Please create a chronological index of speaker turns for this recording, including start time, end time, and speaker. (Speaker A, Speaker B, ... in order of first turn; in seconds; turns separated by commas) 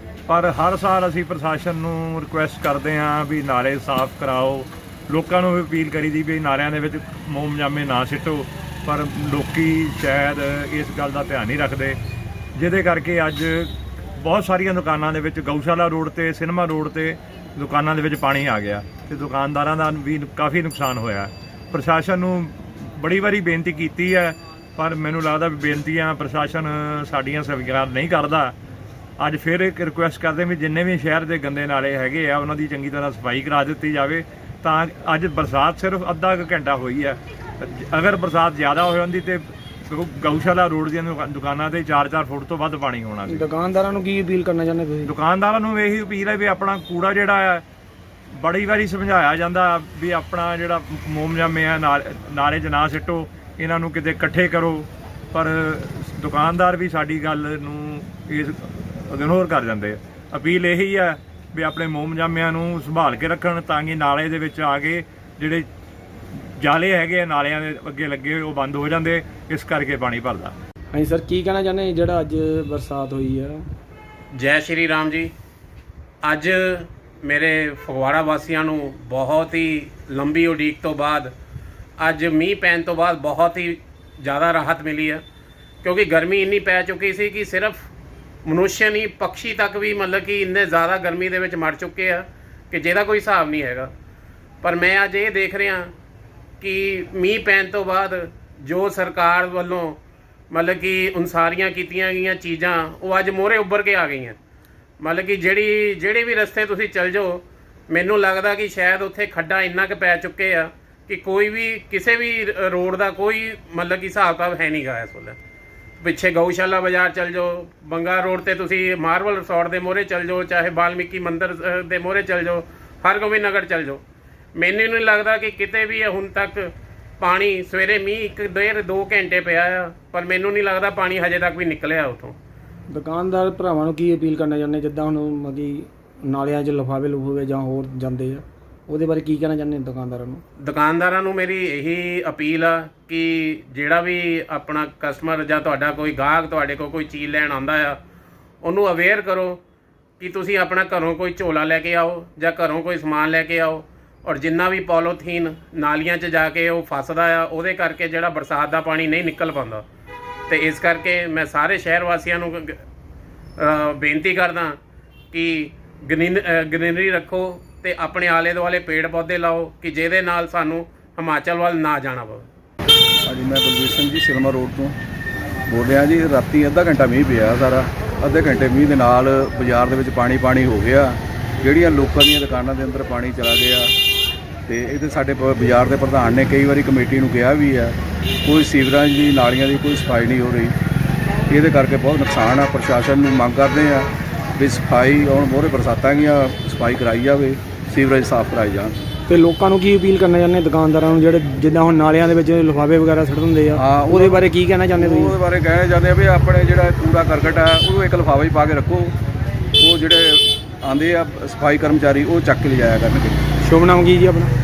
Speaker A: 0.3-12.0, Speaker A: 12.6-28.6, Speaker A: 29.2-43.5, Speaker B: 43.3-45.1, Speaker A: 45.1-47.6, Speaker A: 48.3-65.7, Speaker A: 66.3-70.6, Speaker B: 70.9-73.6, Speaker C: 74.3-75.3, Speaker C: 76.2-81.3, Speaker C: 82.0-85.2, Speaker C: 85.8-87.9, Speaker C: 88.5-93.9, Speaker C: 94.6-95.9, Speaker C: 96.6-100.0, Speaker C: 100.5-104.4, Speaker C: 105.0-115.4, Speaker C: 116.0-124.0, Speaker C: 124.6-132.4, Speaker B: 132.9-140.4, Speaker C: 140.6-148.0, Speaker C: 148.6-149.6, Speaker C: 150.2-159.8, Speaker C: 160.5-162.8, Speaker C: 163.6-164.8, Speaker C: 165.3-172.5, Speaker D: 173.3-175.0, Speaker D: 175.7-183.9, Speaker D: 184.7-190.8, Speaker D: 191.5-199.0, Speaker B: 199.3-205.3, Speaker D: 203.8-209.2, Speaker D: 209.8-213.5, Speaker B: 213.6-214.5